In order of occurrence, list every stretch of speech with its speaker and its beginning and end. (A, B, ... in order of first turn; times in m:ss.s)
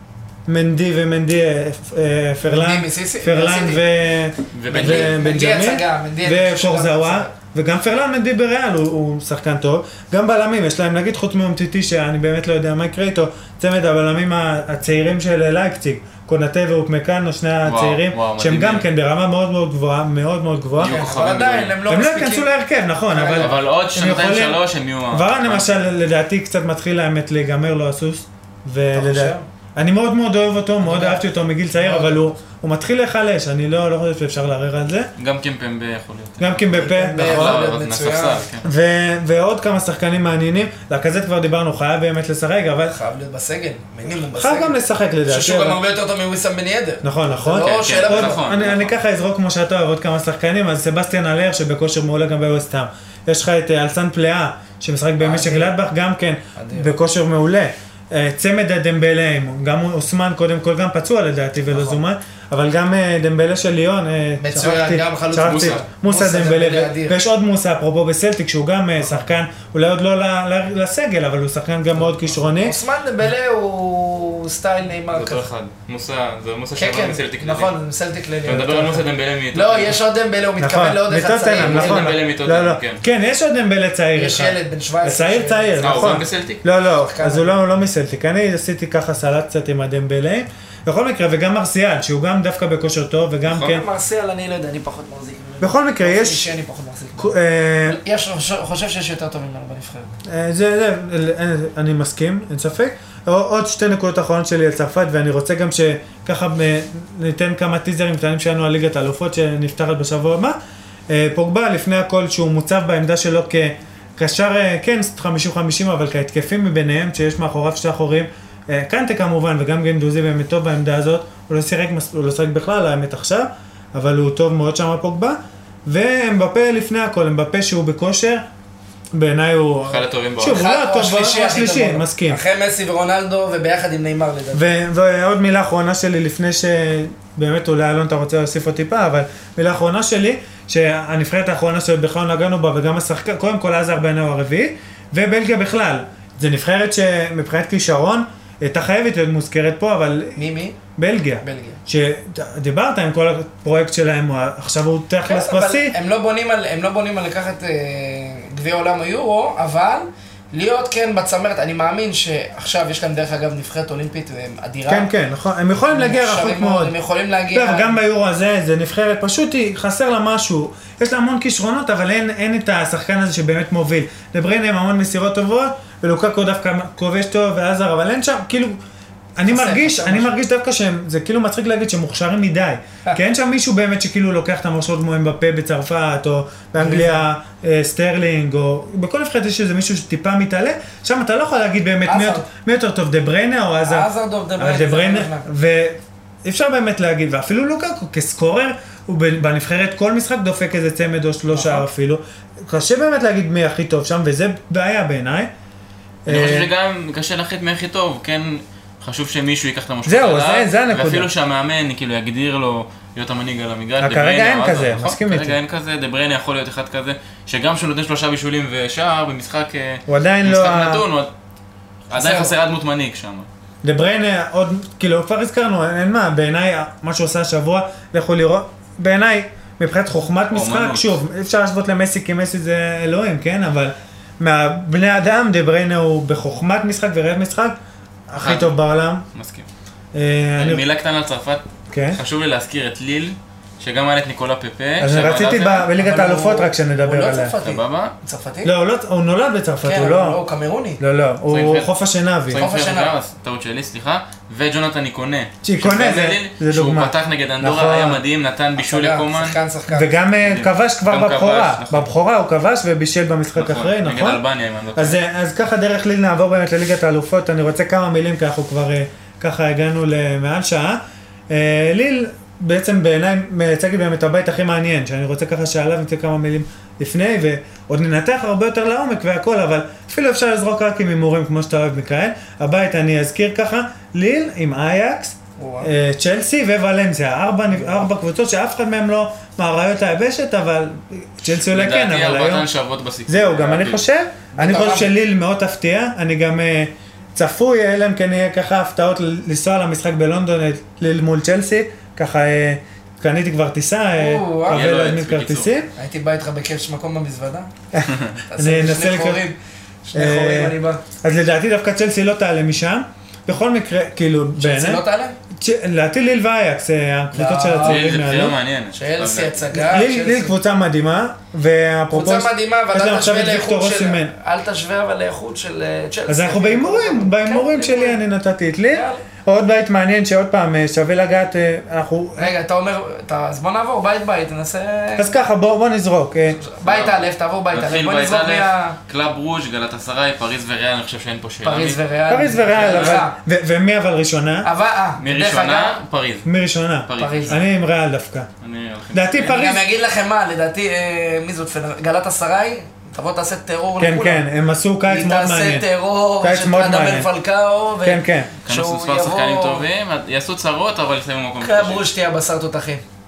0:00.5-0:21.0 A
0:02.5-0:03.8 B
0:04.5-0:05.2 C
0:04.7-0:07.3 B
0:17.6-0:18.9 C
0:20.8-0:21.8 C
0:20.8-0:22.5 B
0:21.9-0:35.1 A
0:23.1-0:23.5 B
0:23.4-0:25.8 C
0:28.9-0:29.4 B
0:30.8-0:32.3 B
0:35.2-0:38.6 C
0:36.4-0:37.6 A
0:36.8-0:38.4 B
0:38.6-0:43.0 A
0:42.9-0:48.4 B
0:44.3-0:45.8 A
0:47.0-1:12.8 A
0:47.6-0:49.0 C
0:55.2-0:55.7 B
0:56.6-0:56.9 B
1:01.7-1:02.0 B
1:04.4-1:07.2 B
1:05.4-1:05.8 C
1:12.6-1:15.5 B
1:15.1-1:17.7 C
1:16.8-1:22.2 B
1:18.4-1:20.0 C
1:20.6-1:33.8 A
1:21.5-1:23.0 C
1:24.1-1:26.2 B
1:25.8-1:26.6 C
1:27.0-1:27.5 B
1:33.5-1:40.2 B
1:35.6-1:36.5 A
1:37.2-1:38.0 A
1:40.2-1:50.6 A
1:51.1-2:08.4 A
2:09.1-2:12.4 A
2:09.8-2:10.6 C
2:10.4-2:14.7 B
2:14.5-2:30.4 A
2:30.4-2:30.8 B
2:30.9-2:35.9 A
2:31.4-2:31.8 B
2:35.2-2:45.1 B
2:44.9-2:46.9 A
2:45.9-2:48.0 B
2:47.5-2:58.8 A
2:59.4-3:14.1 A
2:59.5-3:00.3 B
3:06.8-3:07.2 B
3:12.0-3:12.4 B
3:13.8-3:15.5 B
3:14.6-3:25.5 A
3:21.5-3:21.8 B
3:26.2-3:26.7 A
3:26.3-3:41.3 C
3:30.0-3:31.3 A
3:34.0-3:35.6 A
3:40.1-3:41.0 A
3:42.1-3:42.5 B
3:42.1-3:43.5 C
3:43.8-3:57.8 A
3:50.5-3:51.2 C
3:58.3-3:59.2 A
3:58.4-3:58.8 C
3:59.3-3:59.7 C
4:00.1-4:00.8 A
4:00.6-4:05.9 C
4:01.9-4:02.2 A
4:05.0-4:07.5 A
4:06.0-4:08.7 B
4:07.6-4:08.1 C
4:08.6-4:10.4 A
4:09.8-4:11.0 B
4:11.0-4:12.6 A
4:11.5-4:11.9 C
4:12.5-4:19.6 C
4:12.5-4:13.1 B
4:15.6-4:18.2 A
4:18.8-4:20.1 B
4:19.9-4:24.4 A
4:20.4-4:22.1 C
4:23.6-4:25.2 C
4:25.0-4:52.7 A
4:45.6-4:45.9 B
4:51.6-4:54.0 C
4:53.3-5:05.9 A
4:54.5-4:55.1 B
5:04.2-5:04.8 B
5:04.7-5:05.8 C
5:06.0-5:07.7 B
5:07.9-5:09.4 A
5:08.1-5:08.4 C
5:08.5-5:11.0 B
5:10.1-5:15.0 A
5:14.6-5:15.4 B
5:15.5-5:18.6 A
5:17.3-5:18.1 B
5:17.8-5:19.6 C
5:18.9-5:20.5 B
5:19.7-5:24.3 A
5:22.1-5:28.2 B
5:26.3-5:32.5 A
5:28.9-5:29.2 B
5:32.4-5:35.3 B
5:35.2-5:36.6 A
5:36.5-5:39.0 B
5:36.8-5:42.0 C
5:41.6-5:43.3 B
5:42.3-5:44.7 A
5:42.8-5:43.2 C
5:44.6-5:46.0 B
5:45.2-5:46.5 C
5:46.4-5:48.5 A
5:47.1-5:47.6 C
5:47.2-5:47.6 B
5:48.6-5:49.6 C
5:49.1-5:49.8 A
5:49.4-5:54.4 B
5:54.0-5:55.8 A
5:55.0-5:59.8 B
5:56.4-5:57.3 A
5:58.0-5:58.5 A
5:58.6-6:02.1 C
6:01.6-6:03.0 B